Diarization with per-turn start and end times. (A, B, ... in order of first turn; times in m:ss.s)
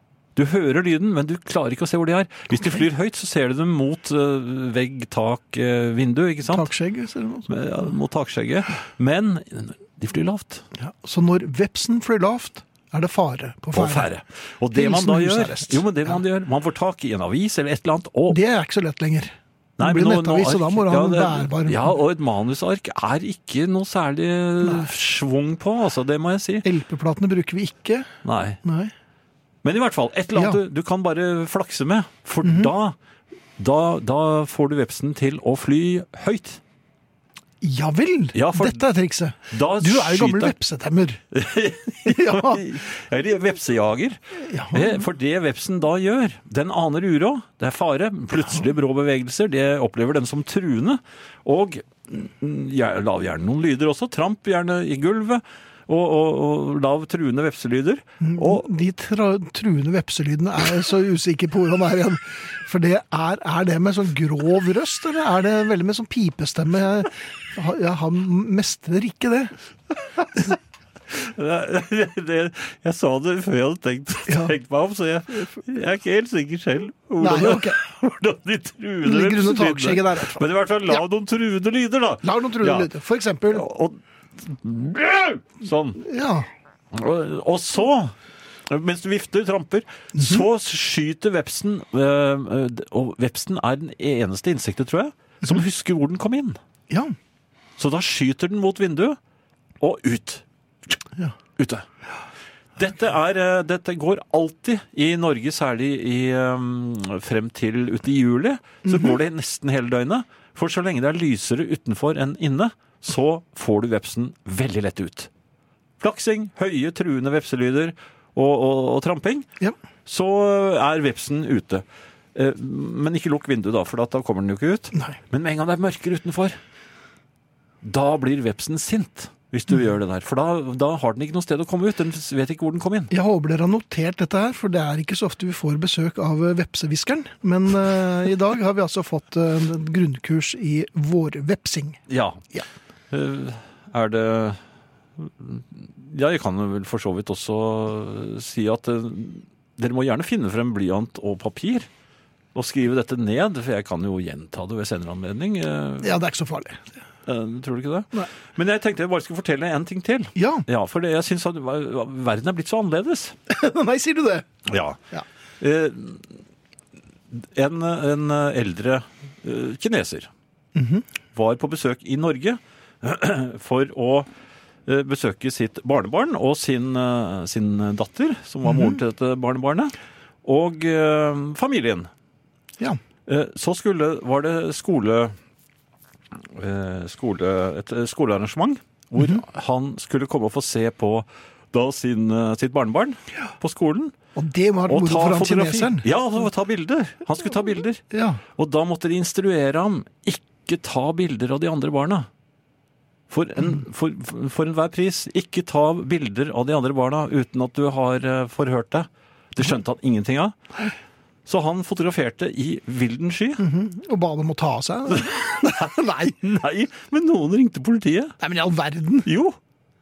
0:00.4-0:06.7 A
0:06.5-0:07.5 B
0:07.5-0:10.6 A
0:10.8-0:14.1 B
0:13.7-0:18.4 A
0:14.7-0:16.2 B
0:18.3-0:21.9 B
0:19.8-0:26.7 A
0:26.6-0:28.1 B
0:28.2-0:28.6 A
0:28.6-0:28.9 B
0:29.6-0:32.9 A
0:30.3-0:30.6 B
0:32.4-0:32.7 B
0:33.6-0:36.6 A
0:37.6-0:41.2 B
0:38.3-0:38.9 A
0:39.5-0:40.5 A
0:41.3-0:44.2 A
0:42.1-0:42.6 B
0:44.4-0:45.0 B
0:44.7-0:58.6 A
0:58.2-1:09.5 B
1:11.1-1:22.9 A
1:17.2-1:17.8 B
1:19.0-1:21.0 B
1:22.2-1:23.6 B
1:23.5-1:26.0 A
1:26.0-1:26.5 B
1:26.9-1:28.1 A
1:28.7-1:36.6 A
1:30.2-1:30.4 B
1:36.9-1:37.1 B
1:37.8-1:39.2 A
1:39.8-1:40.4 A
1:41.6-1:41.8 A
1:42.8-1:55.3 A
1:56.0-1:59.5 A
2:00.0-2:01.8 A
2:02.3-2:06.6 A
2:07.8-2:13.1 A
2:13.1-2:22.0 B
2:22.1-2:22.4 A
2:23.1-2:24.6 A
2:25.2-2:31.9 A
2:32.5-2:36.2 A
2:36.0-2:36.8 B
2:37.2-2:43.3 A
2:40.4-2:40.6 B
2:43.5-2:44.5 B
2:44.7-2:45.0 A
2:45.6-2:46.3 A
2:47.3-2:50.3 A
2:50.7-2:51.0 B
2:51.3-2:54.3 A
2:54.8-3:02.1 A
2:58.7-2:59.0 B
3:03.3-3:05.3 A
3:06.5-3:14.1 A
3:14.4-3:16.0 B
3:14.9-3:18.0 A
3:18.1-3:18.4 B
3:18.6-3:22.3 A
3:23.3-3:30.5 A
3:31.4-3:33.6 A
3:33.6-3:36.4 B
3:35.2-3:38.4 A
3:38.4-3:39.3 B
3:39.2-3:39.6 A